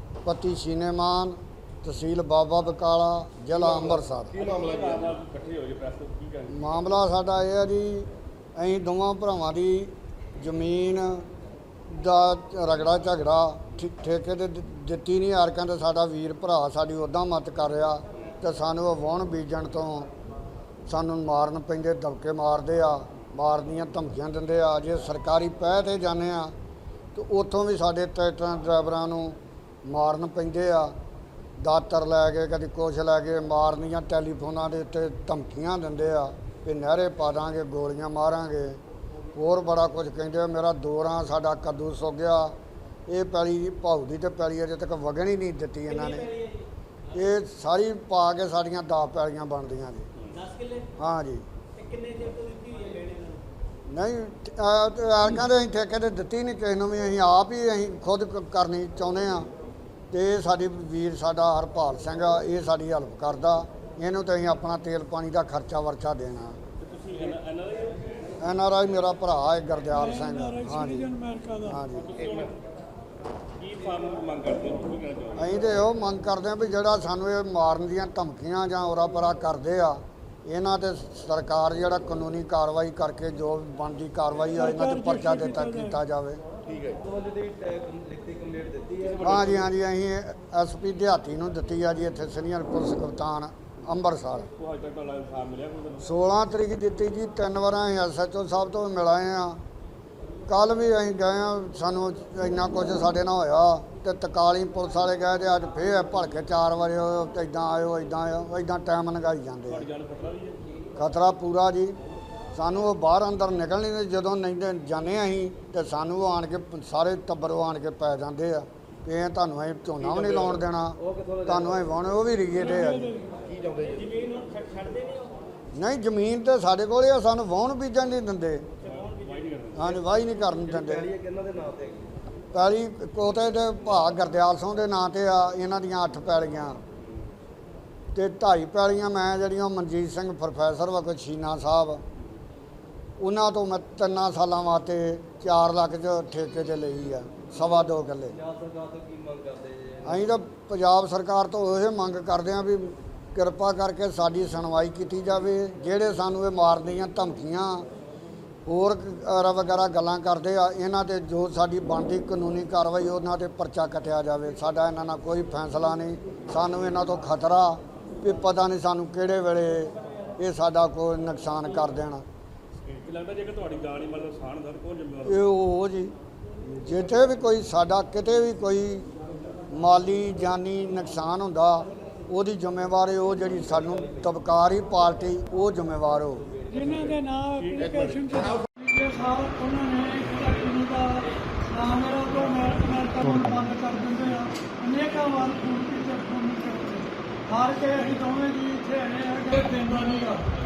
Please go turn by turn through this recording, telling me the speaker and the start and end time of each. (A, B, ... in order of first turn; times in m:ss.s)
0:00.2-0:04.3 A
0:03.5-0:05.1 B
0:04.3-0:06.8 C
0:06.5-0:11.2 A
0:11.9-0:20.1 A
0:20.9-0:26.5 A
0:27.1-0:30.9 A
0:31.6-0:38.8 A
0:39.3-0:42.5 A
0:43.1-0:46.3 A
0:46.2-0:46.5 D
0:47.1-0:50.1 A
0:50.2-0:50.5 C
0:50.5-0:50.9 D
0:51.0-0:51.4 A
0:51.8-0:53.4 D
0:53.9-0:59.4 A
1:00.1-1:06.6 A
1:06.8-1:08.3 C
1:08.4-1:11.1 A
1:09.9-1:11.8 E
1:11.6-1:12.1 A
1:11.9-1:12.6 C
1:13.6-1:15.7 C
1:15.4-1:26.4 A
1:24.5-1:26.0 E
1:26.6-1:29.2 B
1:29.0-1:29.7 C
1:29.2-1:34.5 A
1:34.6-1:36.1 C
1:36.0-1:39.6 A
1:40.5-1:49.9 A
1:49.7-1:50.6 C
1:51.0-1:52.0 A
1:52.5-2:03.1 A
2:00.0-2:01.8 B
2:02.5-2:03.2 E
2:03.3-2:04.2 B
2:04.3-2:05.3 D
2:05.8-2:08.7 A
2:08.8-2:10.0 C
2:09.7-2:11.1 A
2:10.5-2:12.1 B
2:12.5-2:16.8 A
2:18.1-2:22.0 A
2:23.2-2:28.4 A
2:28.3-2:30.2 B
2:30.0-2:37.8 A
2:38.6-2:52.2 A
2:52.8-2:55.4 C
2:55.2-2:56.1 A
2:56.8-2:59.1 A
2:59.7-3:06.4 A
3:06.7-3:07.2 B
3:06.7-3:20.5 E
3:07.5-3:08.1 C
3:07.7-3:08.7 B
3:13.3-3:13.6 A